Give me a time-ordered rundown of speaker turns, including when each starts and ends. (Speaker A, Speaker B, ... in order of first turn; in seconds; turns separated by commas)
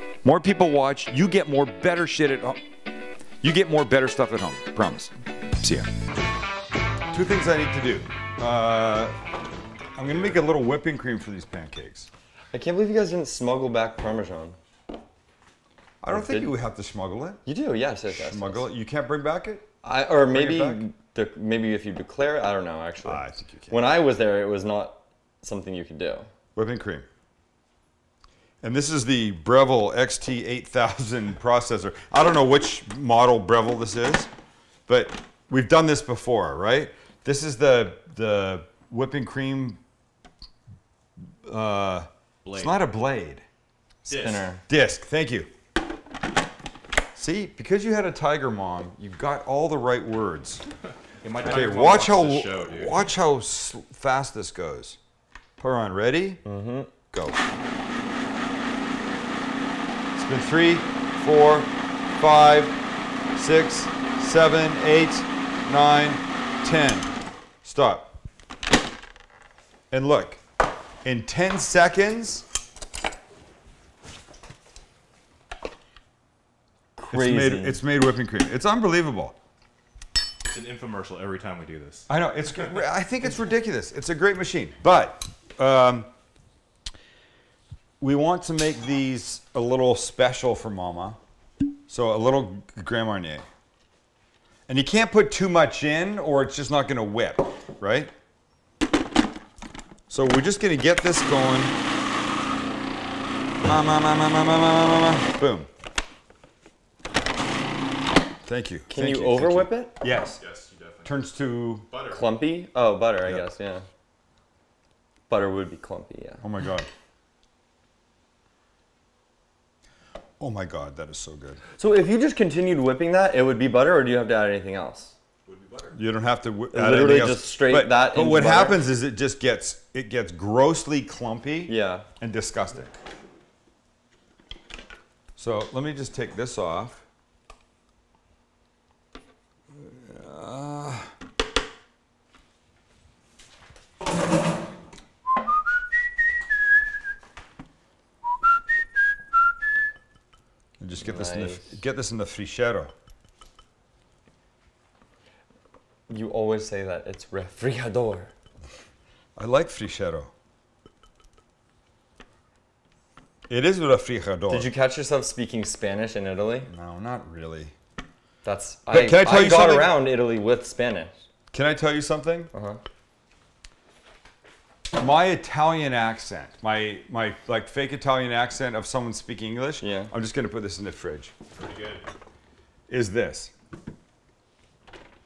Speaker A: 0.2-2.6, Speaker A: 3.4-5.9, Speaker A: 7.1-9.2, Speaker A: 9.9-12.1, Speaker B: 10.0-10.4, Speaker C: 12.5-14.6, Speaker A: 16.0-17.4, Speaker C: 16.1-16.5, Speaker C: 17.4-18.7, Speaker A: 18.1-19.7, Speaker C: 19.8-26.3, Speaker A: 20.2-20.8, Speaker A: 23.0-23.8, Speaker A: 26.5-27.1, Speaker A: 28.6-34.3, Speaker A: 34.9-39.8, Speaker A: 41.4-43.4, Speaker B: 42.4-42.8, Speaker B: 44.1-44.5, Speaker C: 44.1-44.6, Speaker A: 44.7-45.5, Speaker A: 47.1-50.6, Speaker B: 51.2-53.1, Speaker A: 51.4-55.0, Speaker A: 55.6-56.4, Speaker C: 56.4-56.9, Speaker A: 57.1-57.4, Speaker A: 60.1-62.8, Speaker A: 63.3-67.1, Speaker A: 67.6-68.1, Speaker A: 69.9-70.4, Speaker A: 71.0-72.4, Speaker C: 77.0-77.8, Speaker A: 77.1-79.3, Speaker B: 80.4-82.0, Speaker A: 82.1-86.1, Speaker A: 88.0-91.2, Speaker A: 91.9-93.5, Speaker A: 94.7-98.1, Speaker A: 100.1-101.7, Speaker A: 103.6-105.7, Speaker A: 108.4-110.4, Speaker C: 108.9-110.0, Speaker B: 110.4-112.4, Speaker A: 111.0-111.9, Speaker C: 112.0-113.8, Speaker C: 115.3-116.4, Speaker A: 116.4-116.9, Speaker A: 120.4-121.6, Speaker C: 121.8-125.1, Speaker B: 125.5-125.9, Speaker A: 125.9-133.0, Speaker C: 126.7-128.9, Speaker C: 131.7-132.1, Speaker A: 135.4-137.0, Speaker A: 139.8-141.1, Speaker A: 150.8-152.9, Speaker C: 151.0-151.7, Speaker C: 156.1-158.3, Speaker A: 159.3-160.3, Speaker A: 163.5-164.7, Speaker C: 164.5-166.7, Speaker A: 166.7-167.7, Speaker C: 168.4-171.2, Speaker A: 168.9-170.0, Speaker A: 171.5-172.5, Speaker C: 172.5-172.8, Speaker A: 175.0-181.3, Speaker C: 179.8-180.1, Speaker B: 181.5-182.1, Speaker A: 182.9-183.5